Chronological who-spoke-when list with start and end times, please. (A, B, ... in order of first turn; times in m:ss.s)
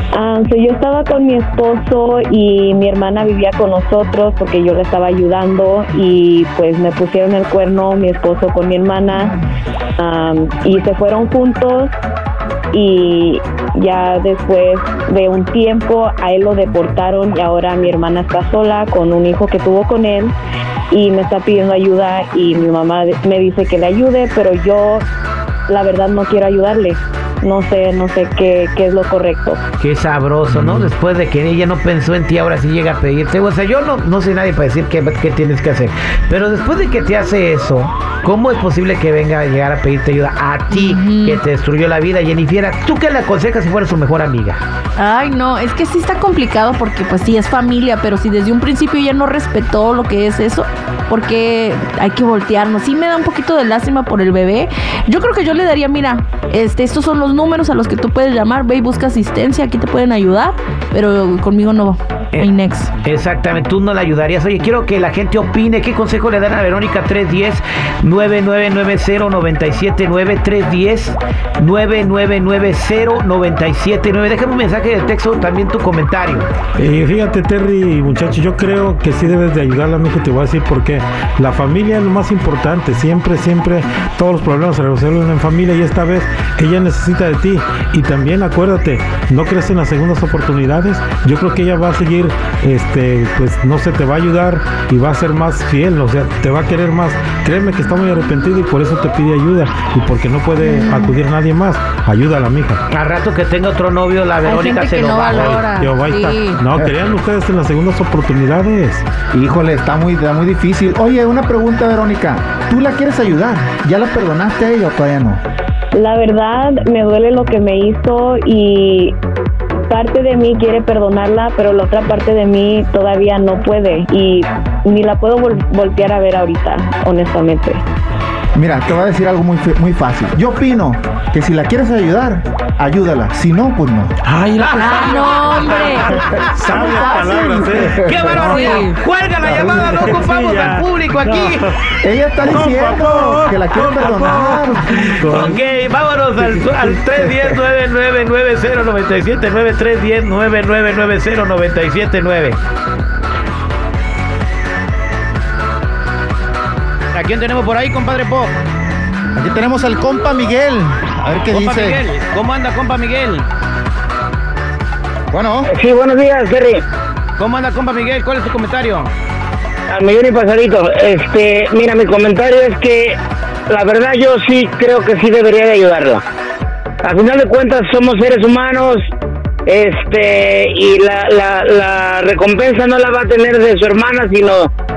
0:00.1-0:09.3 A
0:10.0-0:11.9 A
0:12.7-0:20.3 A
0:20.9-0:25.0 A
0:25.7-0:29.6 A
0:29.8-0:44.6 B
0:40.7-0:41.4 C
0:45.0-1:02.9 C
1:03.0-1:16.5 B
1:16.8-1:42.8 D
1:40.6-1:41.2 C
1:42.9-1:45.6 B
1:44.4-1:46.6 C
1:45.3-1:49.0 D
1:49.3-1:55.4 E
1:55.9-1:59.2 A
1:59.9-2:07.8 A
2:08.5-2:14.1 E
2:14.2-2:15.3 D
2:14.6-2:17.2 B
2:14.8-2:16.0 C
2:15.9-2:18.8 D
2:16.2-2:18.5 E
2:18.0-2:21.7 B
2:18.5-2:19.0 C
2:19.5-2:21.9 D
2:19.5-2:20.0 E
2:22.0-2:24.8 E
2:22.5-2:25.6 D
2:24.9-2:32.6 B
2:37.1-2:38.5 B
2:39.3-2:42.0 E
2:41.5-2:43.5 B
2:45.3-2:45.7 E
2:45.6-2:46.8 F
2:47.4-2:49.1 B
2:49.9-2:56.2 F
2:57.0-2:59.1 F
2:59.7-3:04.7 F